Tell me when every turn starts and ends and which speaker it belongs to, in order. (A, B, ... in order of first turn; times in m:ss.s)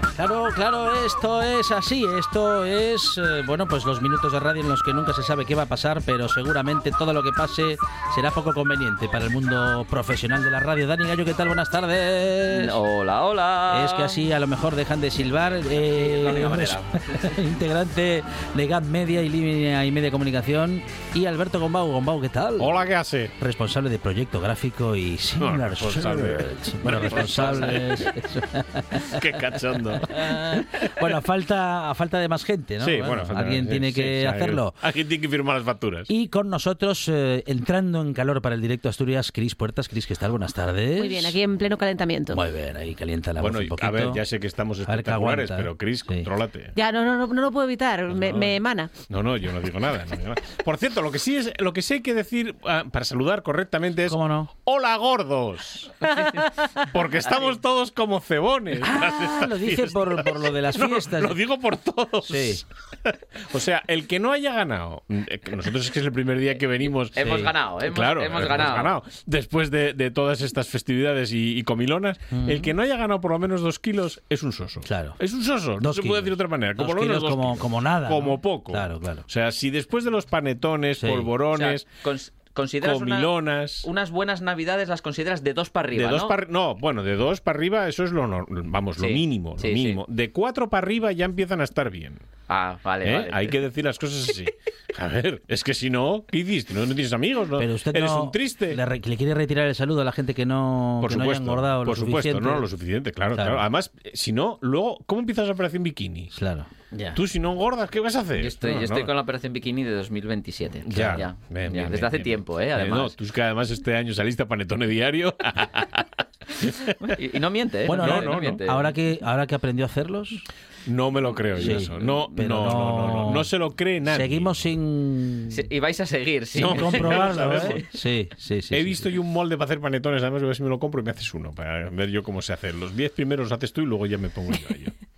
0:00.1-0:12.8 A
0:12.6-0:14.1 B
0:13.7-0:22.8 A
0:16.0-0:16.9 B
0:22.6-0:23.3 C
0:23.4-0:29.4 A
0:25.4-0:28.1 C
0:29.0-0:31.0 C
0:30.1-0:34.8 A
0:32.8-0:36.1 C
0:36.1-0:41.4 A
0:41.0-0:42.4 D
0:42.3-0:44.2 A
0:43.4-0:46.7 C
0:44.8-0:46.3 A
0:46.8-0:48.9 D
0:48.1-0:55.9 C
0:54.1-0:54.5 A
0:56.0-0:57.0 D
0:56.9-1:07.3 C
0:58.8-1:01.4 A
1:02.2-1:02.6 A
1:07.1-1:08.9 B
1:07.2-1:07.5 A
1:07.8-1:21.9 C
1:12.3-1:12.7 A
1:14.8-1:15.2 A
1:15.8-1:19.3 A
1:21.0-1:21.3 A
1:21.5-1:26.4 B
1:22.8-1:23.9 C
1:25.9-1:32.2 C
1:29.0-1:30.0 B
1:32.5-1:33.6 B
1:33.0-1:38.8 C
1:37.6-1:42.7 A
1:41.0-1:46.3 C
1:43.3-1:43.6 A
1:46.3-1:46.7 A
1:47.2-1:49.1 C
1:48.4-1:53.1 B
1:50.8-1:57.0 C
1:51.0-1:51.2 A
1:57.1-1:58.9 B
1:57.8-2:00.5 A
1:57.9-1:58.6 C
2:00.9-2:04.6 C
2:01.6-2:03.5 A
2:01.8-2:02.3 B
2:04.1-2:05.7 A
2:05.5-2:07.8 B
2:06.5-2:09.1 A
2:06.6-2:07.9 C
2:08.7-2:14.9 C